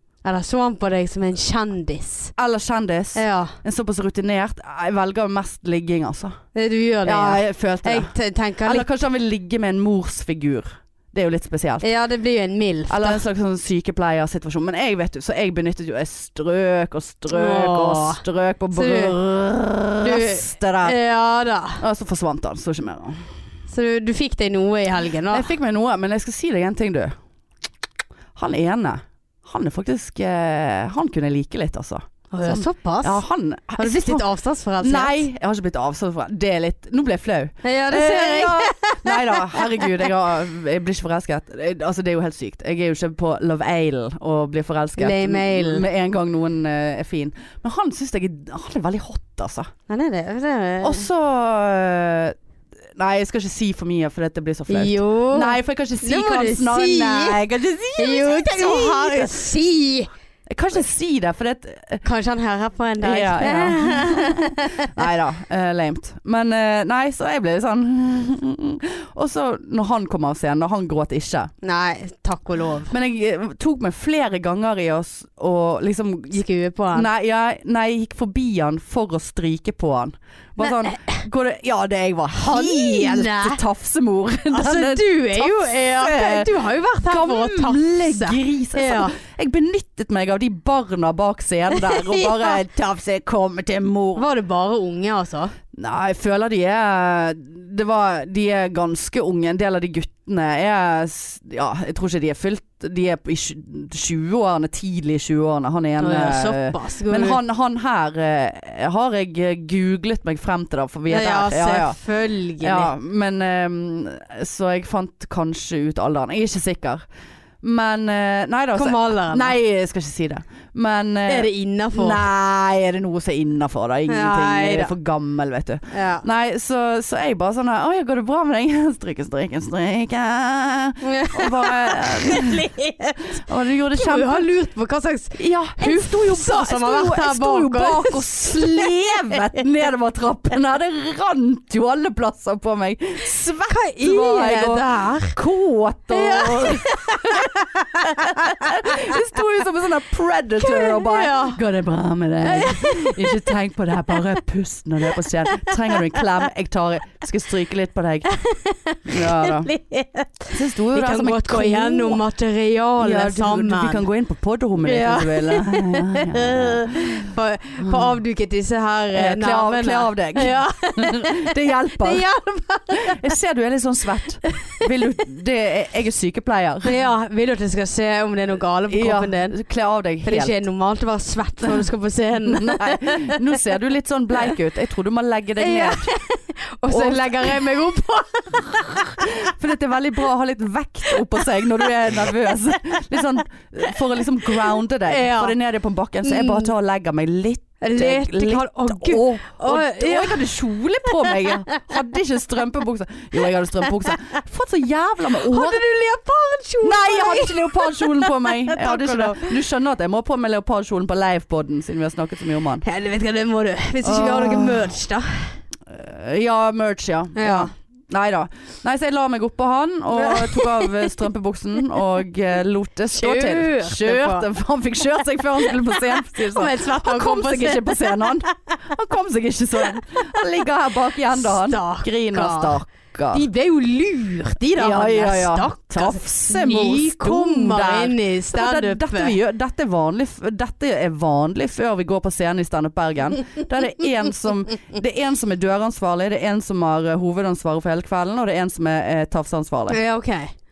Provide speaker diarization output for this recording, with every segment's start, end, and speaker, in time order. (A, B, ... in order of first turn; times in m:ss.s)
0:00.2-0:02.3 A
0:02.4-0:06.4 B
0:03.2-0:03.6 A
0:06.6-0:08.9 A
0:07.0-0:08.1 B
0:08.6-0:11.9 B
0:11.8-0:13.2 A
0:12.9-0:21.0 B
0:17.3-0:19.2 A
0:20.0-0:21.8 A
0:21.8-0:23.3 B
0:23.7-0:25.5 A
0:25.3-0:27.1 B
0:28.4-0:34.2 B
0:32.3-0:33.2 A
0:33.8-0:35.2 A
0:34.8-0:49.7 B
0:37.6-0:39.9 A
0:45.0-0:45.9 A
0:49.9-0:51.1 A
0:50.8-0:52.4 B
0:53.0-0:59.5 B
0:54.7-0:57.4 A
0:58.0-1:00.1 A
1:00.5-1:02.0 B
1:02.0-1:04.9 A
1:03.0-1:11.5 B
1:11.6-1:12.9 A
1:12.9-1:26.6 B
1:16.3-1:17.1 A
1:20.6-1:21.2 A
1:22.3-1:23.6 A
1:24.5-1:29.2 A
1:27.1-1:34.3 B
1:31.8-1:32.6 A
1:34.2-1:35.6 A
1:35.7-1:52.0 B
1:46.0-1:47.4 A
1:51.1-1:52.9 A
1:52.6-1:57.0 B
1:57.6-2:12.7 B
1:58.8-1:59.6 A
2:01.3-2:02.2 A
2:04.1-2:04.9 A
2:05.9-2:06.2 A
2:11.0-2:19.4 A
2:13.4-2:14.5 B
2:15.4-2:38.4 B
2:23.7-2:25.4 A
2:26.1-2:29.4 A
2:30.6-2:31.6 A
2:32.4-2:33.5 A
2:35.2-2:36.3 A
2:38.3-2:44.1 A
2:39.1-2:39.7 B
2:40.5-2:42.2 B
2:43.0-2:47.3 B
2:44.8-2:53.2 A
2:47.8-2:48.2 B
2:49.1-2:52.2 B
2:52.9-2:57.0 B
2:54.5-2:54.8 A
2:56.8-2:59.6 A
2:58.9-3:00.6 B
3:00.2-3:03.4 A
3:02.5-3:06.1 B
3:05.6-3:09.5 A
3:06.9-3:07.7 B
3:08.5-3:25.8 B
3:11.1-3:12.3 A
3:14.5-3:15.6 A
3:16.2-3:16.7 A
3:17.8-3:20.5 A
3:21.1-3:21.7 A
3:24.1-3:24.4 A
3:25.3-3:29.6 A
3:26.8-3:32.8 B
3:32.8-3:35.6 A
3:34.0-3:34.9 B
3:35.9-3:53.4 B
3:37.4-3:37.7 A
3:40.1-3:41.1 A
3:43.1-3:44.5 A
3:45.4-3:48.5 A
3:51.3-3:52.8 A
3:53.3-3:59.4 A
3:54.8-4:10.0 B
4:09.9-4:10.5 A